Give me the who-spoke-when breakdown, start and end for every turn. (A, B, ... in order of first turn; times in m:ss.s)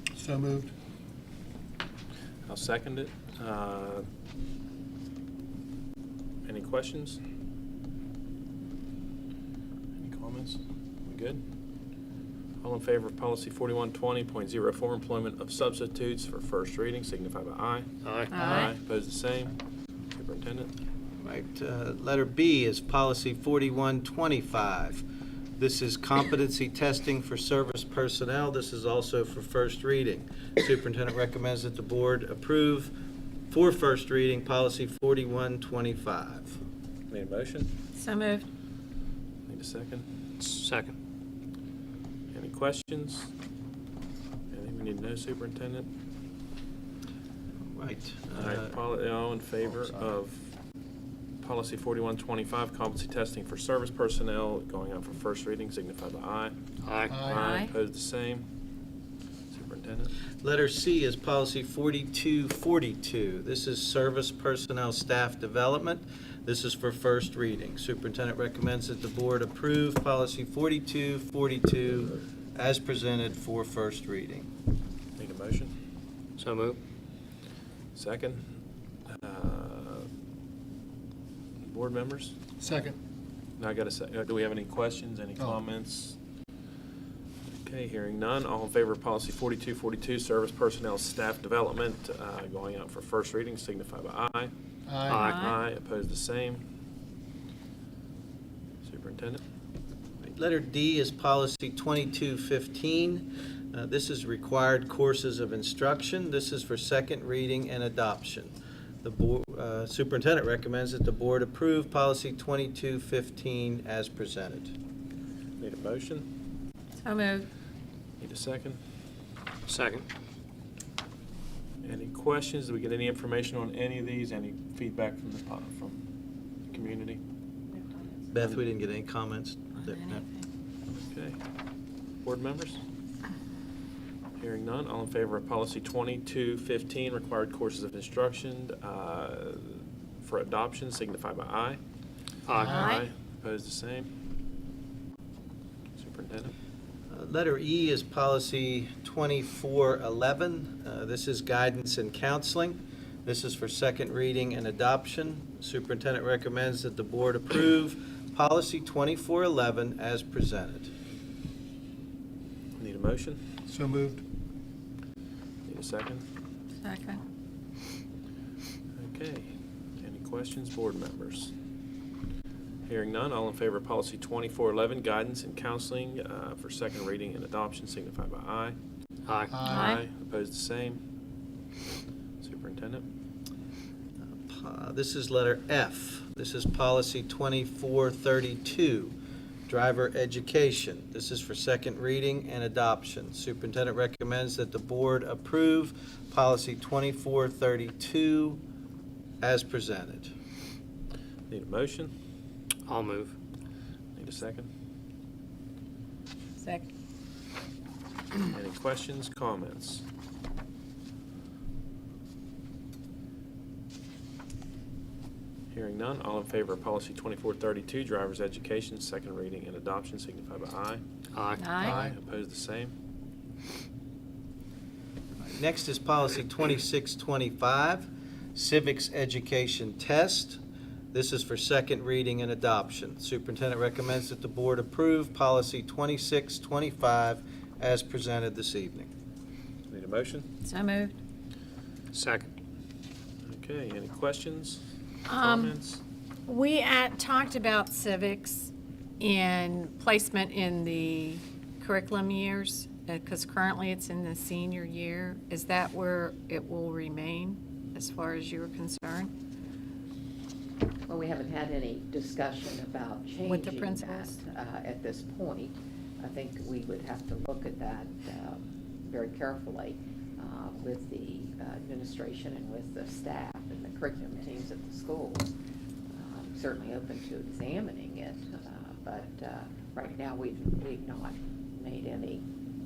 0:00.2-0:00.7 A
0:02.5-0:04.1 B
0:06.4-0:07.2 B
0:10.0-0:11.4 B
0:12.6-0:19.6 B
0:18.0-0:18.6 C
0:18.3-0:18.7 D
0:20.2-0:20.7 B
0:21.2-0:25.0 E
0:25.6-0:32.9 E
0:33.5-0:36.6 E
0:37.1-0:37.7 B
0:38.0-0:38.5 D
0:39.5-0:40.0 B
0:40.4-0:41.0 C
0:42.3-0:43.3 B
0:44.5-0:45.9 B
0:47.7-0:48.8 E
0:48.4-0:50.5 B
0:51.4-0:56.6 B
0:56.8-0:57.2 C
0:57.1-0:57.5 A
0:57.2-0:58.5 B
0:57.4-0:57.7 D
0:59.5-1:00.1 B
1:00.4-1:14.5 E
1:15.2-1:15.7 B
1:16.4-1:16.8 C
1:18.0-1:18.4 B
1:19.1-1:20.1 B
1:21.6-1:22.4 B
1:22.6-1:23.0 A
1:23.6-1:26.2 B
1:27.6-1:34.5 B
1:34.9-1:35.3 A
1:35.1-1:35.5 C
1:35.2-1:36.6 B
1:38.8-1:39.4 B
1:40.2-1:54.7 E
1:55.6-1:56.3 B
1:57.0-1:57.5 D
1:58.2-1:58.8 B
1:59.7-2:00.1 C
2:01.8-2:06.0 B
2:06.7-2:07.2 B
2:08.3-2:10.2 E
2:09.8-2:10.5 D
2:11.1-2:11.4 B
2:12.2-2:12.8 B
2:14.4-2:21.8 B
2:22.5-2:22.8 C
2:22.6-2:23.0 A
2:22.6-2:24.1 B
2:26.0-2:26.5 B
2:27.1-2:40.9 E
2:42.8-2:43.4 B
2:43.7-2:44.2 A
2:45.7-2:46.2 B
2:46.8-2:47.2 D
2:49.0-2:51.5 B
2:52.9-2:58.8 B
2:59.3-2:59.6 C
2:59.5-3:00.0 A
2:59.7-3:01.0 B
3:02.4-3:03.0 B
3:04.3-3:09.2 E
3:09.7-3:18.6 E
3:19.4-3:20.3 E
3:21.5-3:22.1 B
3:22.9-3:23.3 C
3:24.2-3:24.7 B
3:26.6-3:26.9 D
3:28.5-3:30.0 B
3:35.7-3:41.0 B
3:41.3-3:41.8 C
3:41.8-3:42.2 A
3:41.8-3:42.9 B
3:45.4-3:50.6 E
3:51.1-3:59.1 E
3:59.9-4:00.5 B
4:00.6-4:01.2 D
4:02.1-4:02.5 C
4:03.5-4:04.8 B
4:05.3-4:05.8 D
4:05.4-4:06.0 B
4:06.5-4:19.3 D
4:21.1-4:35.5 F
4:23.4-4:24.4 D
4:36.1-4:42.4 F